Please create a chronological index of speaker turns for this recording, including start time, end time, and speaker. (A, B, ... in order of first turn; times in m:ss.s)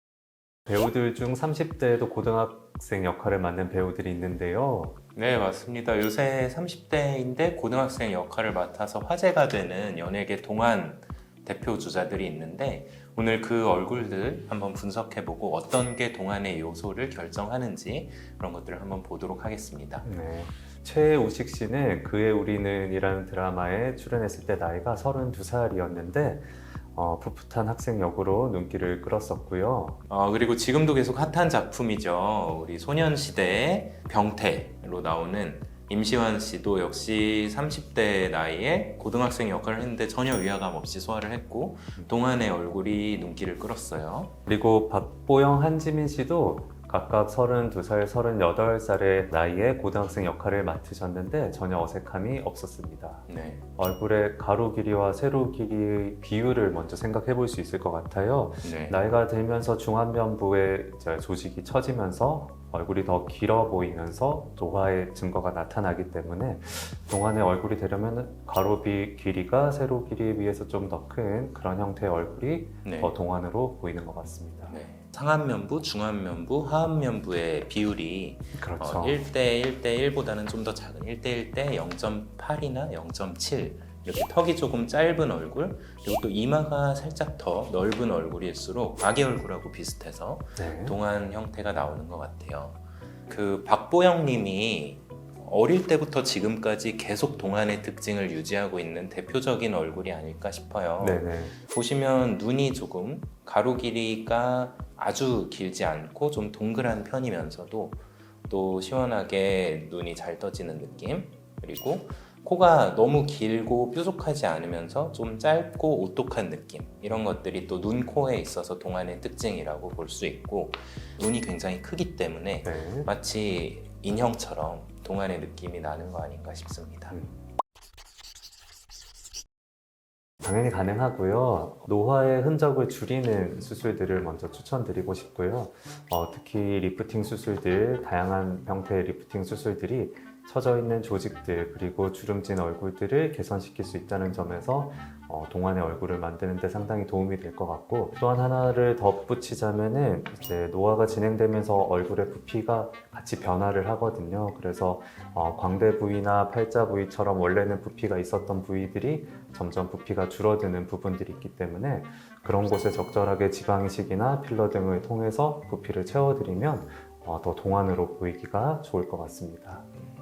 0:00.7-0:05.0 A
0:05.2-0:20.0 B
0:20.0-0:30.0 A
0:30.1-0:44.3 B
0:44.5-1:14.8 A
0:53.3-0:53.6 B
0:58.6-0:59.0 B
1:12.8-1:13.2 B
1:14.7-2:07.2 B
1:18.6-1:19.2 A
1:30.6-1:31.0 A
1:41.0-1:41.6 A
2:02.6-2:03.1 A
2:10.4-2:49.9 A